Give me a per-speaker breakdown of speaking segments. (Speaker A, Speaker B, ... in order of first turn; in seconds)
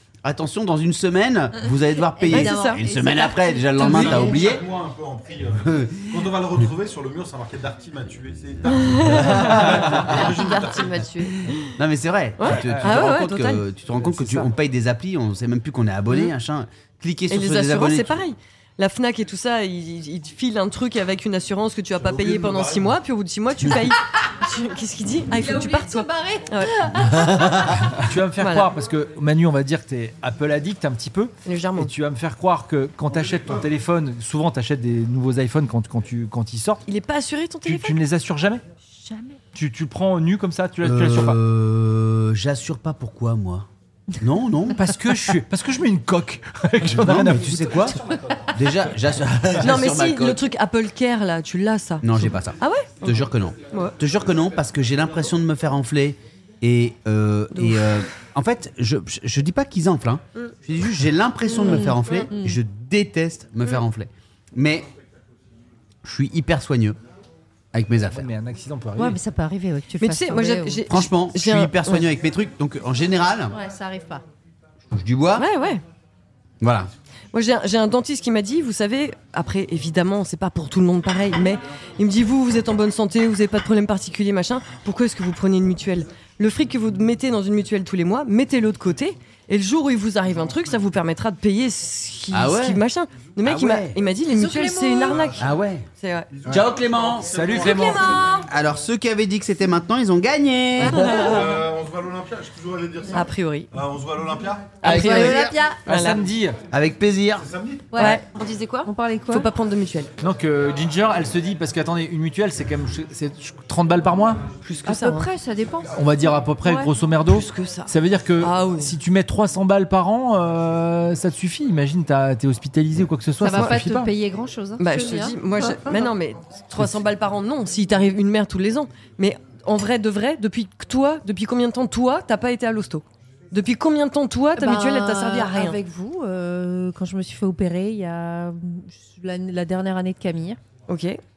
Speaker A: 0.2-4.7, 5.6-6.1, 9.4-9.9, 11.8-18.2, 40.8-43.7, 44.2-45.0, 46.8-48.0, 48.5-50.4, 52.0-64.9, 66.0-67.0, 67.7-68.3, 70.9-73.5, 74.9-75.5, 76.6-76.9, 92.3-92.8, 93.4-94.0, 95.3-95.8, 96.5-97.5, 98.4-101.4, 104.8-105.6, 106.7-107.5
Speaker B: 2.2-4.5, 25.3-27.7, 39.1-39.3, 61.6-62.6, 69.0-70.9, 73.5-74.2, 94.2-95.3, 100.8-101.2, 104.8-106.0, 107.9-109.5, 114.8-115.9, 116.6-116.9, 123.4-126.1, 134.6-140.6
Speaker C: 2.3-2.8, 8.7-11.7, 12.4-13.6, 17.3-26.7, 28.4-28.7, 31.4-31.9, 36.9-38.0, 49.6-53.9, 57.5-57.9, 61.6-62.3, 70.0-72.1, 75.3-75.8, 77.3-95.4, 96.0-96.3, 97.5-98.5, 100.8-101.5, 103.1-103.7, 104.8-106.2, 108.0-110.1, 114.6-115.3, 117.2-118.9, 124.8-135.8, 140.9-141.2
Speaker D: 3.8-11.2, 21.9-23.0, 33.1-33.6, 95.0-95.5, 96.3-98.3, 101.1-104.8, 107.4-108.0
Speaker E: 12.5-13.0, 14.1-14.5, 27.9-36.8, 37.6-38.6, 39.4-41.4, 44.7-47.9, 68.1-69.2, 97.2-98.2, 104.9-105.3, 105.8-106.6, 110.2-114.4, 115.9-124.1